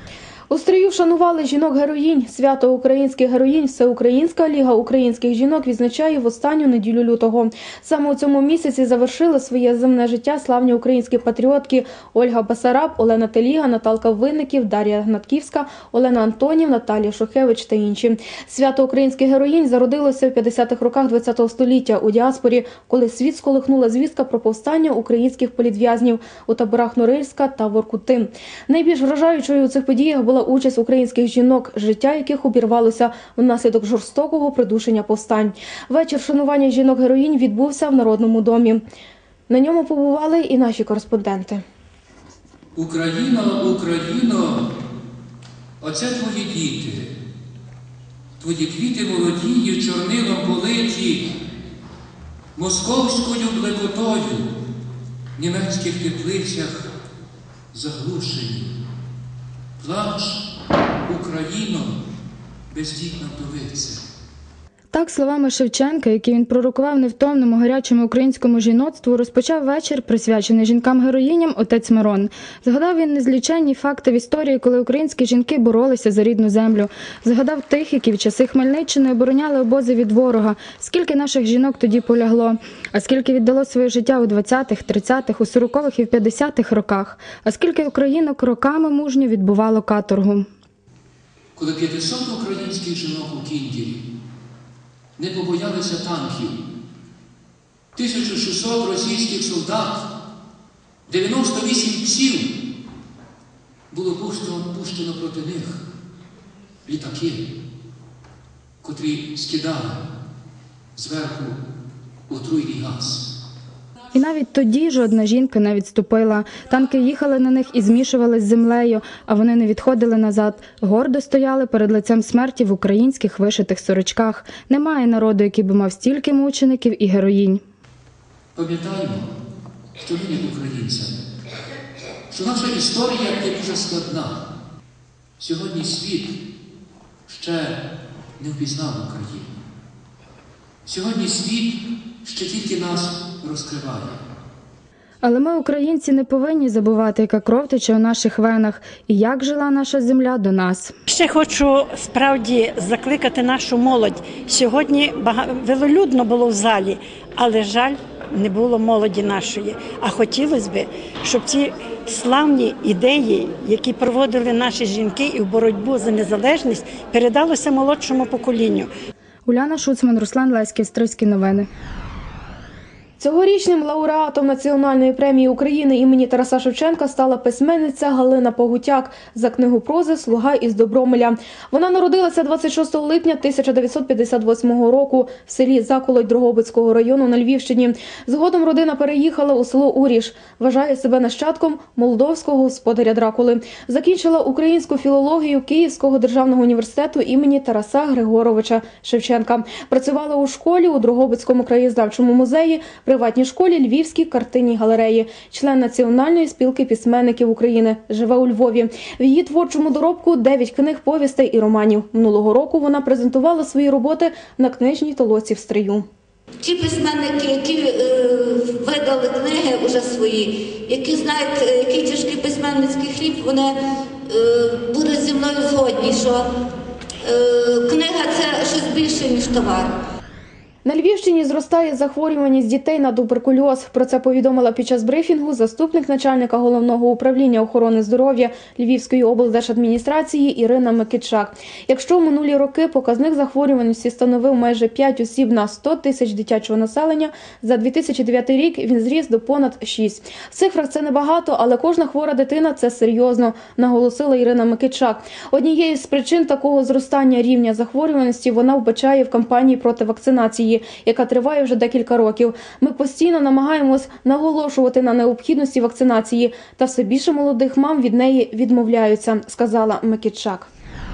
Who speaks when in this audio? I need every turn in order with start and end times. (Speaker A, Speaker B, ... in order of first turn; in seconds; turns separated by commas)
Speaker A: 0.5-38.8, Speaker A: 39.5-41.6, Speaker B: 42.7-44.7, Speaker B: 45.8-47.1, Speaker B: 48.4-51.3, Speaker B: 52.5-54.5, Speaker B: 55.4-56.9, Speaker B: 57.7-58.7, Speaker B: 59.8-60.4, Speaker B: 61.0-62.0, Speaker B: 62.7-64.0, Speaker C: 64.9-90.5, Speaker B: 91.5-94.0, Speaker B: 95.2-96.6, Speaker B: 97.9-100.0, Speaker B: 101.1-102.5, Speaker B: 103.9-105.8, Speaker B: 106.8-107.5, Speaker B: 108.8-110.0, Speaker B: 110.9-111.6, Speaker B: 112.3-113.3, Speaker C: 114.1-127.6, Speaker B: 128.5-129.3, Speaker B: 130.0-131.2, Speaker B: 132.3-134.4, Speaker B: 135.4-136.4, Speaker B: 137.3-137.8, Speaker B: 138.4-139.5, Speaker B: 140.8-144.2, Speaker C: 145.2-150.9, Speaker D: 151.1-168.9, Speaker C: 169.4-171.7, Speaker A: 173.2-216.1, Speaker E: 216.6-226.5, Speaker E: 227.2-229.9, Speaker A: 230.8-270.7